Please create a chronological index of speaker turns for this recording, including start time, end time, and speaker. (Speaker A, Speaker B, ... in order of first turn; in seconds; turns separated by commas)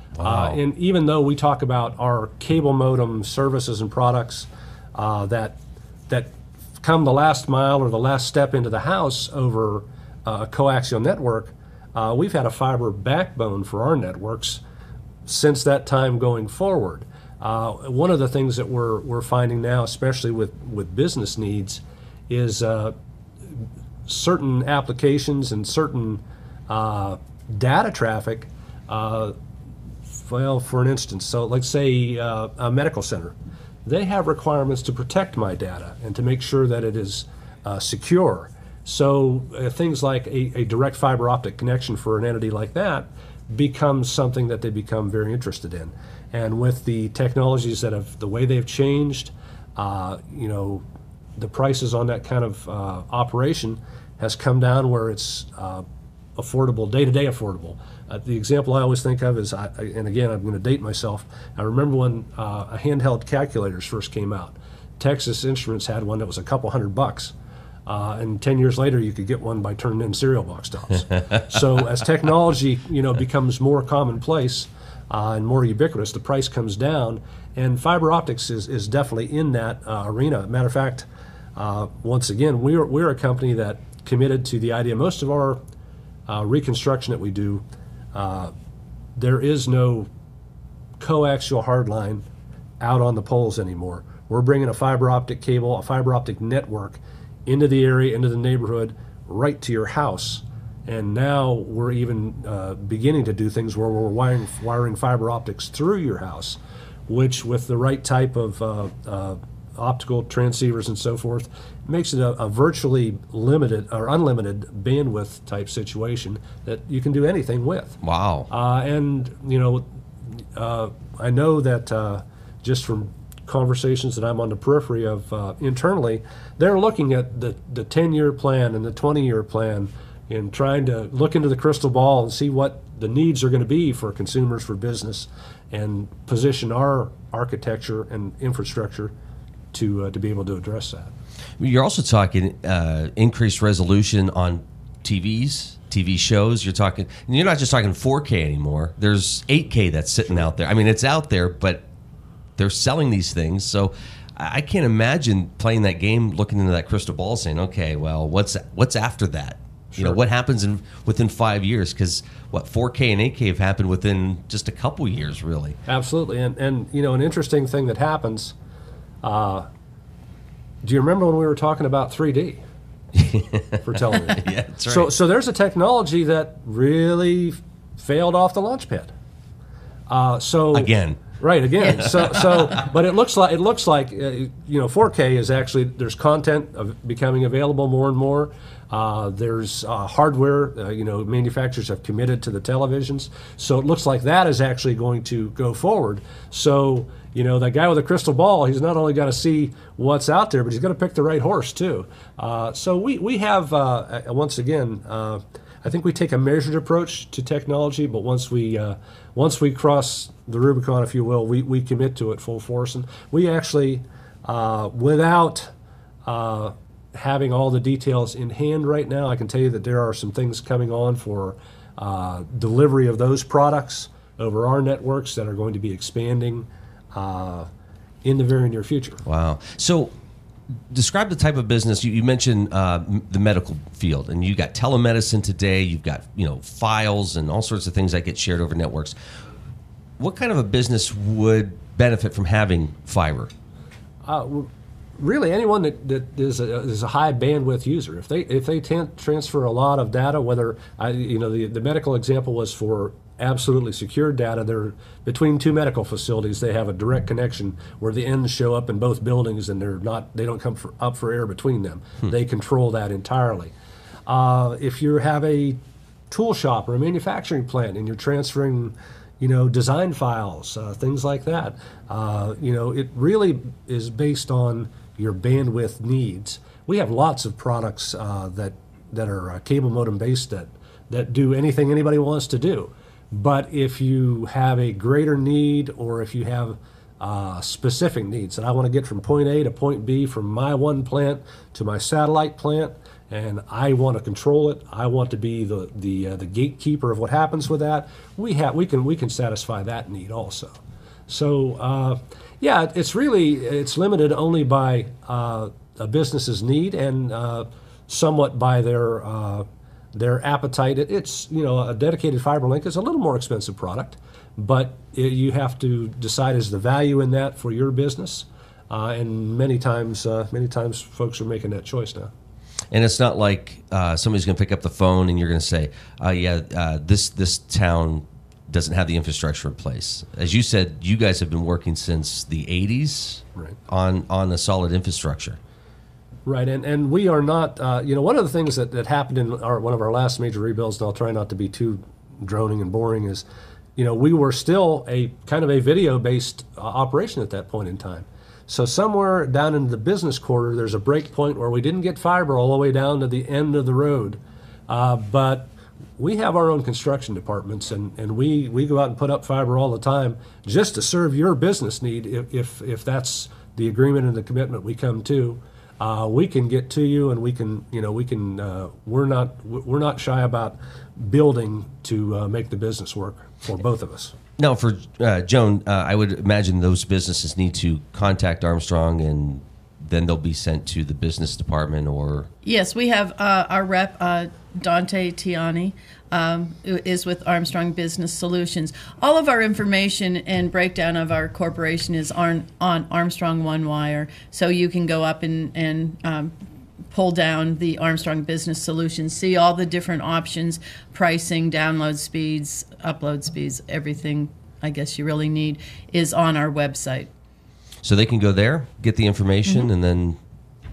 Speaker A: 0.2-0.6, Speaker B: 0.2-14.6, Speaker B: 15.3-22.9, Speaker B: 23.5-29.4, Speaker B: 30.1-33.3, Speaker B: 33.9-50.8, Speaker B: 51.4-55.9, Speaker B: 56.4-67.3, Speaker B: 67.9-85.6, Speaker B: 86.3-88.5, Speaker B: 89.2-90.1, Speaker B: 91.0-92.2, Speaker B: 92.8-139.1, Speaker A: 118.0-118.5, Speaker B: 139.7-141.1, Speaker A: 141.6-151.9, Speaker A: 152.6-165.8, Speaker B: 159.9-160.2, Speaker B: 165.9-168.5, Speaker B: 169.2-169.7, Speaker B: 170.8-172.6, Speaker A: 173.2-175.1, Speaker B: 173.8-179.1, Speaker B: 180.1-215.7, Speaker A: 180.7-181.2, Speaker C: 181.8-182.5, Speaker A: 181.9-182.4, Speaker B: 216.2-227.7, Speaker B: 228.2-229.2, Speaker A: 229.2-230.1, Speaker A: 230.9-239.2, Speaker A: 240.2-243.5, Speaker B: 244.2-263.7, Speaker B: 264.3-265.8, Speaker B: 266.3-322.3, Speaker A: 322.9-335.6, Speaker B: 336.5-343.4, Speaker B: 344.0-374.4, Speaker A: 374.6-382.5, Speaker C: 382.6-396.5, Speaker C: 397.1-407.3, Speaker A: 408.0-410.4